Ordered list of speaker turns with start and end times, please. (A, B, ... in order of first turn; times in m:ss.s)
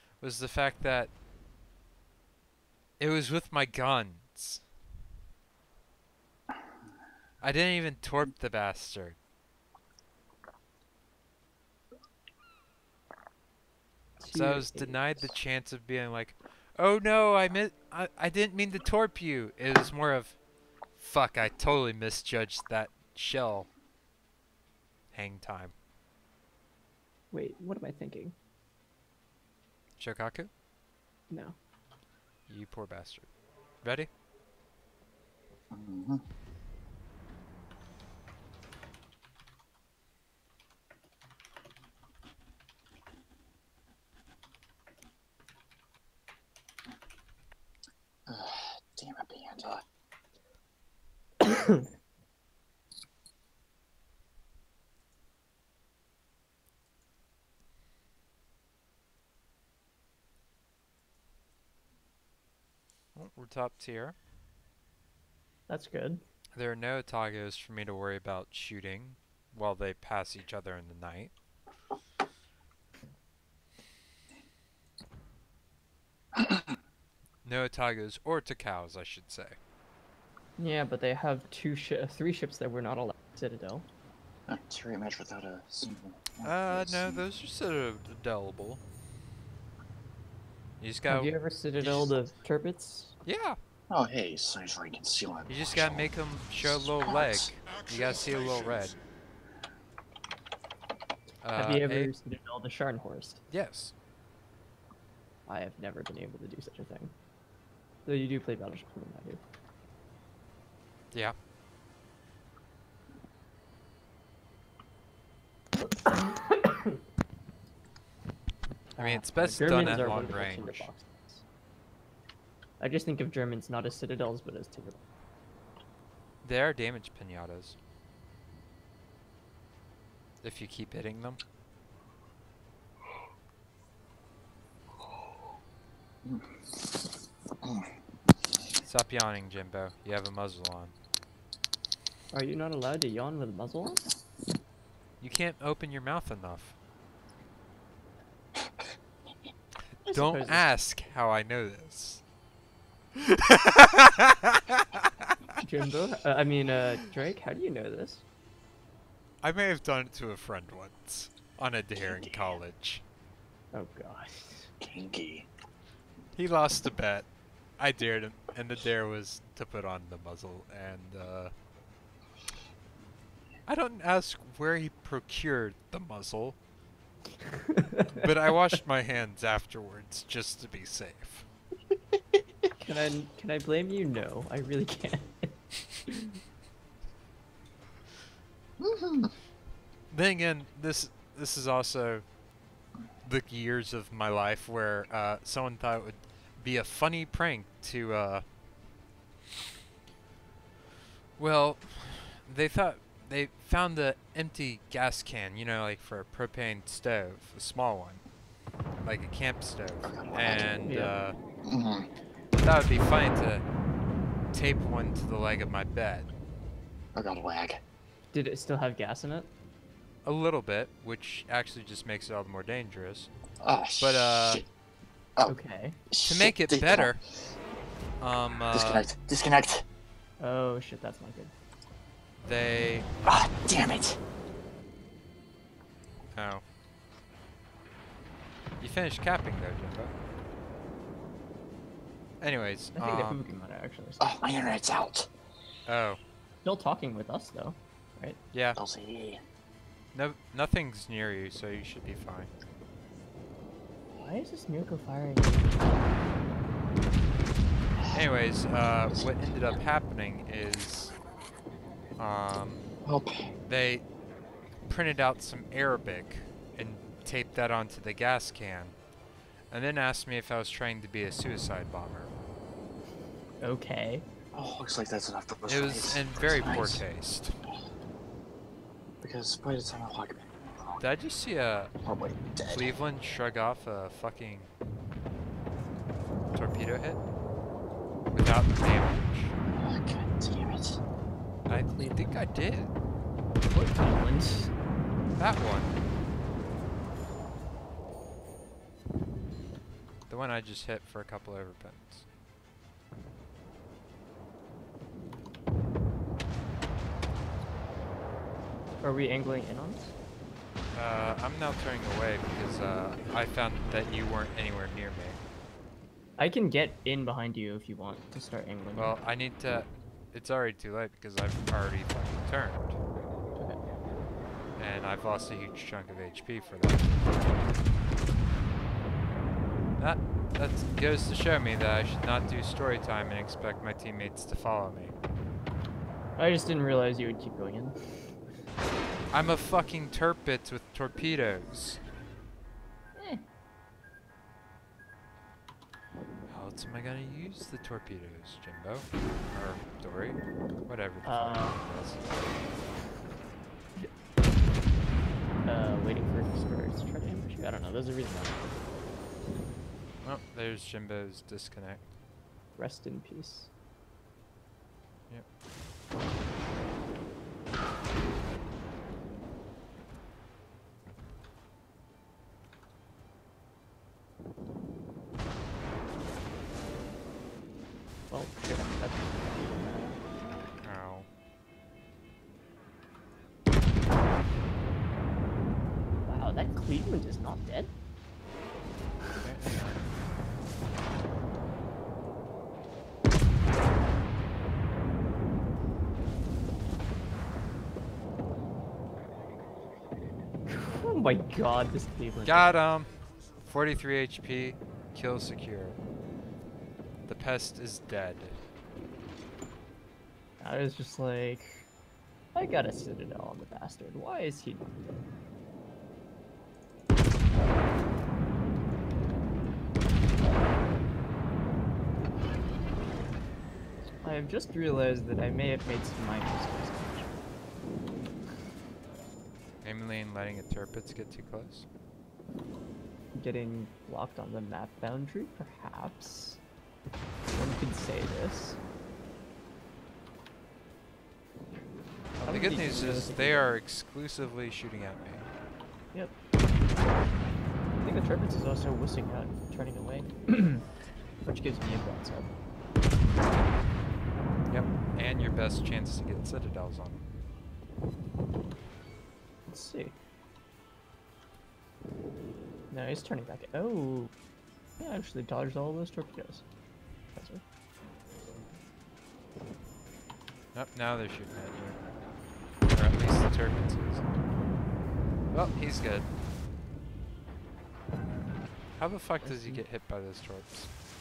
0:00.2-0:01.1 A
0:03.0-0:04.6 A
0:07.4-0:09.2 A
0:14.2-0:15.2 B
0:14.3-0:20.4 A
0:20.9-0:23.7 A
0:25.1-0:25.7 A
0:27.3-0:28.3 B
0:30.0-0:30.5 A
0:31.3-0:31.6 B
0:32.5-0:33.3 A
0:33.8-0:34.1 A
0:35.7-0:36.2 C
0:48.3-0:49.8 C
0:51.4-0:51.9 B
1:03.1-1:04.2 A
1:05.7-1:06.2 B
1:06.6-1:11.3 A
1:16.3-1:16.8 C
1:17.4-1:19.6 A
1:20.6-1:23.9 B
1:24.5-1:27.2 C
1:26.4-1:28.8 A
1:30.8-1:31.3 A
1:31.1-1:33.1 B
1:31.8-1:32.1 C
1:33.2-1:33.6 A
1:33.9-1:36.1 C
1:35.5-1:38.9 A
1:36.6-1:37.5 C
1:41.4-1:42.1 A
1:41.5-1:43.4 B
1:43.5-1:43.9 A
1:45.5-1:47.1 B
1:48.0-1:49.4 B
1:55.8-1:57.0 B
1:59.0-2:01.4 B
1:59.0-2:00.9 A
2:02.8-2:05.0 B
2:06.4-2:07.8 A
2:10.4-2:11.4 A
2:16.2-2:17.1 C
2:17.6-2:17.9 C
2:18.8-2:20.9 A
2:22.3-2:24.0 B
2:25.2-2:26.8 A
2:29.9-2:32.2 A
2:30.0-2:30.6 B
2:33.1-2:35.6 A
2:35.6-2:38.2 B
2:39.4-2:43.0 A
2:42.0-2:42.6 C
2:43.7-2:44.7 B
2:44.8-2:45.5 C
2:46.3-2:47.3 A
2:47.8-2:51.5 A
2:53.7-2:56.6 A
2:57.6-2:58.3 B
2:58.1-3:01.4 A
3:02.8-3:06.4 B
3:08.8-3:09.3 C
3:10.1-3:12.2 A
3:13.2-3:18.4 A
3:21.4-3:28.2 A
3:29.0-3:31.4 A
3:30.0-3:30.7 C
3:30.8-3:31.1 B
3:31.6-3:32.1 C
3:32.6-3:33.6 A
3:34.5-3:36.3 A
3:37.1-3:37.8 C
3:38.3-3:39.5 B
3:40.2-3:43.3 A
3:43.6-3:44.6 C
3:44.0-3:44.6 A
3:45.5-3:46.0 B
3:46.1-3:47.1 C
3:46.2-3:47.2 A
3:48.2-3:49.1 A
3:48.7-3:49.8 C
3:50.4-3:51.5 B
3:52.4-3:53.1 A
3:53.2-3:54.2 C
3:56.3-3:56.6 A
3:58.8-4:00.1 A
4:02.4-4:03.4 A
4:03.0-4:04.4 B
4:04.2-4:05.3 C
4:05.8-4:06.2 A
4:06.6-4:08.4 B
4:08.5-4:08.8 A
4:08.8-4:09.4 C
4:10.1-4:12.5 A
4:14.2-4:16.1 B
4:18.0-4:18.3 C
4:18.1-4:21.1 A
4:19.1-4:19.7 C
4:22.2-4:22.8 A
4:23.0-4:23.5 C
4:23.6-4:24.0 A
4:24.9-4:29.0 A
4:29.7-4:32.3 A
4:33.6-4:34.3 B
4:34.5-4:37.0 C
4:35.7-4:37.6 A
4:39.2-4:41.0 C
4:41.0-4:41.9 A
4:42.0-4:42.9 C
4:42.7-4:44.7 A
4:46.5-4:47.2 A
4:48.3-4:49.5 A
4:49.7-4:51.0 C
4:51.7-4:52.2 B
4:51.7-4:52.9 A
4:53.6-4:54.7 B
4:55.4-4:56.0 A
5:00.3-5:02.2 A
5:09.0-5:10.1 B
5:10.9-5:15.4 A
5:16.4-5:19.2 B
5:19.0-5:23.0 A
5:24.8-5:27.5 A
5:30.0-5:35.1 A
5:36.4-5:38.0 B
5:39.3-5:42.0 A
5:43.2-5:43.4 B
5:46.5-5:52.2 A
5:51.2-5:51.8 B
5:55.6-5:58.8 B
6:00.2-6:02.1 A
6:02.8-6:03.7 B
6:18.3-6:20.7 B
6:20.8-6:21.3 A
6:26.2-6:27.9 B
6:29.4-6:30.0 A
6:40.7-6:42.7 B
6:42.4-6:46.0 A
6:47.3-6:48.6 A
6:50.6-6:51.9 B
6:52.5-6:55.2 B
7:04.2-7:07.4 B
7:09.8-7:11.8 A
7:13.3-7:16.6 B
7:17.5-7:18.8 B
7:22.4-7:23.7 B
7:22.4-7:25.5 A
7:28.0-7:30.9 B
7:31.4-7:32.5 B
7:34.7-7:37.2 A
7:39.7-7:40.1 B
7:42.9-7:44.3 B
7:45.0-7:46.6 B
7:47.3-7:47.6 B
7:50.7-7:52.0 A
7:52.9-7:54.2 A
7:55.5-7:56.3 A
7:59.0-8:00.9 A
7:59.4-7:59.8 B